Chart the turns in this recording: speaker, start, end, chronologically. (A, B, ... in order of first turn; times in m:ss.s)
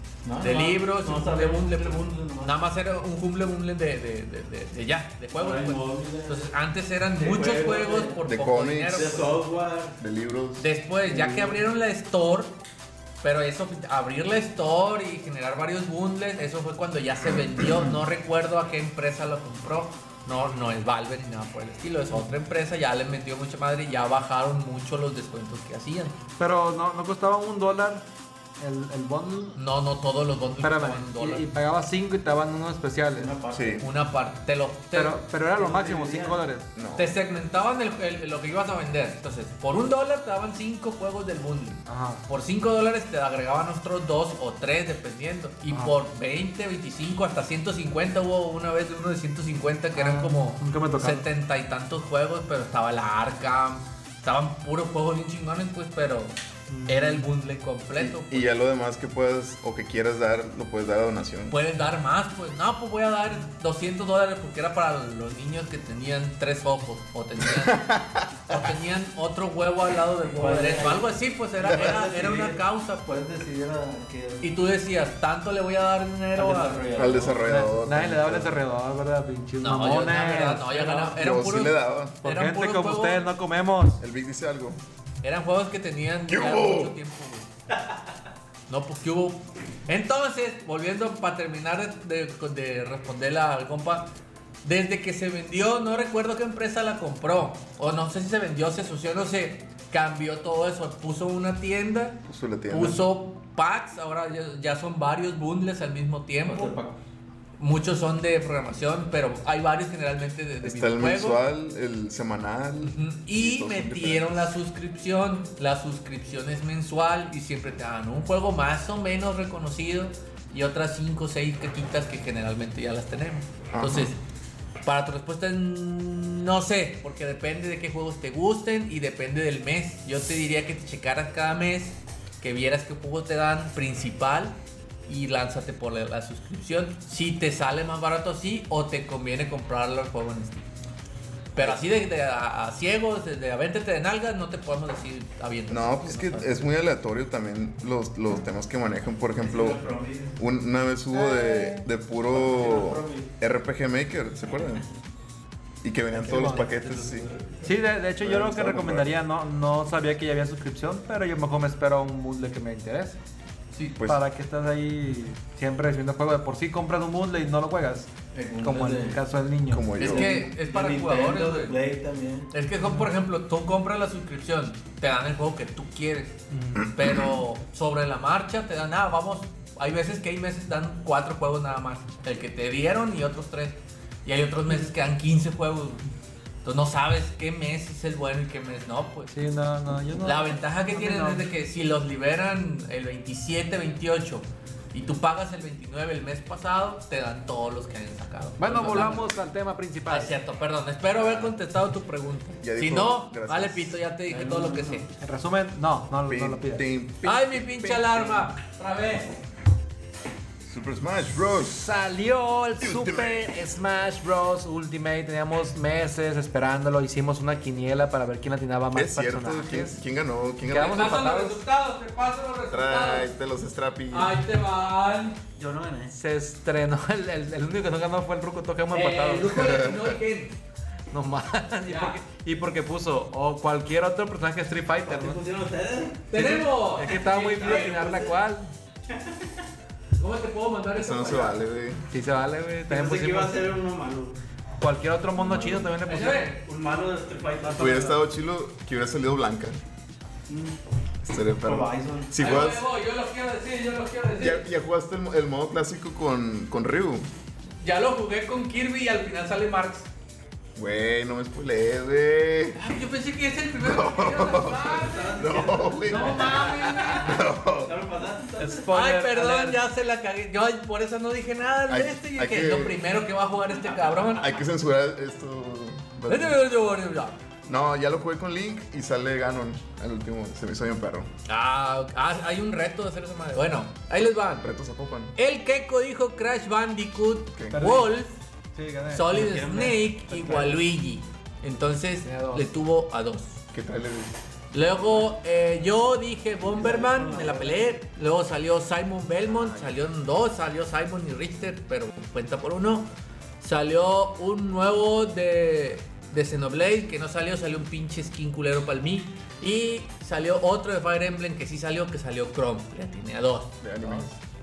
0:00.2-0:02.5 A
0:00.4-0:09.3 B
0:05.4-0:06.5 A
0:07.2-0:08.2 A
0:08.2-0:09.1 C
0:08.9-0:10.0 A
0:10.0-0:10.6 C
0:10.6-0:12.5 B
0:11.0-0:11.6 A
0:13.2-0:26.2 B
0:26.4-0:28.1 D
0:28.6-0:29.6 D
0:29.6-0:31.5 B
0:30.6-0:33.3 D
0:33.1-0:33.9 A
0:33.5-0:33.8 C
0:33.8-0:35.2 B
0:34.9-0:36.6 D
0:35.5-0:36.4 A
0:36.7-0:37.2 C
0:37.0-0:56.3 B
0:41.8-0:42.2 D
0:49.9-0:51.2 D
0:56.8-0:58.5 B
0:57.9-1:01.6 C
1:01.5-1:07.8 B
1:07.4-1:08.7 C
1:08.5-1:13.0 B
1:10.3-1:14.5 A
1:14.4-1:16.9 B
1:16.3-1:17.6 A
1:16.9-1:18.6 C
1:17.4-1:21.2 D
1:19.6-1:23.3 B
1:21.2-1:22.2 C
1:22.2-1:24.0 D
1:24.0-1:24.8 C
1:25.2-1:27.5 B
1:26.3-1:27.0 C
1:28.7-1:34.1 B
1:34.6-1:46.7 B
1:42.3-1:43.0 C
1:46.4-1:47.0 A
1:47.6-1:51.4 B
1:50.6-1:54.5 C
1:52.8-2:04.2 B
2:03.7-2:04.1 C
2:04.8-2:14.6 B
2:15.1-2:20.6 B
2:21.5-2:26.5 B
2:25.7-2:29.8 C
2:29.4-2:30.4 A
2:30.4-2:34.8 C
2:31.1-2:31.9 D
2:32.3-2:33.3 A
2:34.6-2:34.8 A
2:35.8-2:37.3 C
2:36.1-2:36.7 D
2:36.3-2:37.7 A
2:37.6-2:43.2 D
2:38.2-2:39.1 C
2:43.7-2:44.0 B
2:44.0-2:44.2 C
2:44.0-2:48.1 D
2:48.3-2:49.2 A
2:48.6-2:49.9 D
2:49.7-2:50.5 C
2:50.0-2:51.8 B
2:50.0-2:52.5 A
2:52.5-2:56.4 B
2:52.8-2:53.1 D
2:56.5-2:56.8 D
2:56.7-2:57.4 C
2:56.9-3:06.0 B
3:06.6-3:09.3 B
3:09.3-3:11.5 D
3:10.2-3:19.3 B
3:18.6-3:20.3 D
3:20.1-3:25.1 B
3:21.2-3:21.6 C
3:22.6-3:23.9 C
3:24.3-3:25.1 A
3:25.2-3:26.8 D
3:26.3-3:28.0 C
3:27.2-3:29.3 B
3:28.1-3:28.5 D
3:30.6-3:31.9 C
3:31.7-3:40.0 D
3:32.8-3:33.5 C
3:38.9-3:41.1 C
3:40.6-3:43.3 B
3:40.6-3:41.6 D
3:42.7-3:44.4 C
3:44.1-3:45.4 B
3:45.6-3:46.1 A
3:46.1-3:49.5 D
3:48.9-3:50.6 B
3:49.5-3:50.1 C
3:51.1-3:55.4 D
3:51.8-3:52.2 B
3:55.0-3:58.3 A
3:56.3-3:58.0 B
3:56.3-3:58.7 D
3:59.1-3:59.5 A
4:00.2-4:01.6 B
4:01.0-4:02.0 C
4:02.1-4:03.6 D
4:02.9-4:04.4 A
4:04.8-4:06.5 D
4:05.4-4:05.8 A
4:06.0-4:06.6 B
4:06.6-4:08.0 A
4:07.6-4:08.2 D
4:07.8-4:09.8 C
4:10.5-4:10.8 A
4:11.2-4:12.9 C
4:11.6-4:12.3 A
4:12.4-4:14.6 B
4:14.4-4:17.2 C
4:17.8-4:20.1 B
4:20.8-4:22.8 C
4:22.8-4:27.4 B
4:23.8-4:27.9 C
4:24.8-4:26.9 A
4:27.8-4:28.9 A
4:28.6-4:29.8 D
4:28.9-4:34.5 B
4:31.9-4:33.0 C
4:33.7-4:34.5 A
4:34.3-4:36.6 C
4:36.3-4:37.4 B
4:37.7-4:41.3 C
4:41.4-4:44.6 B
4:44.6-4:45.3 C
4:45.4-4:48.4 B
4:47.6-4:47.9 C
4:47.7-4:48.1 D
4:48.7-4:49.4 D
4:49.1-4:53.6 B
4:49.3-4:50.7 A
4:50.4-4:50.7 D
4:52.2-4:52.7 D
4:53.7-4:54.4 C
4:54.7-5:03.1 B
4:56.6-4:57.9 A
4:59.5-4:59.9 C
5:03.6-5:14.2 B
5:13.8-5:14.3 C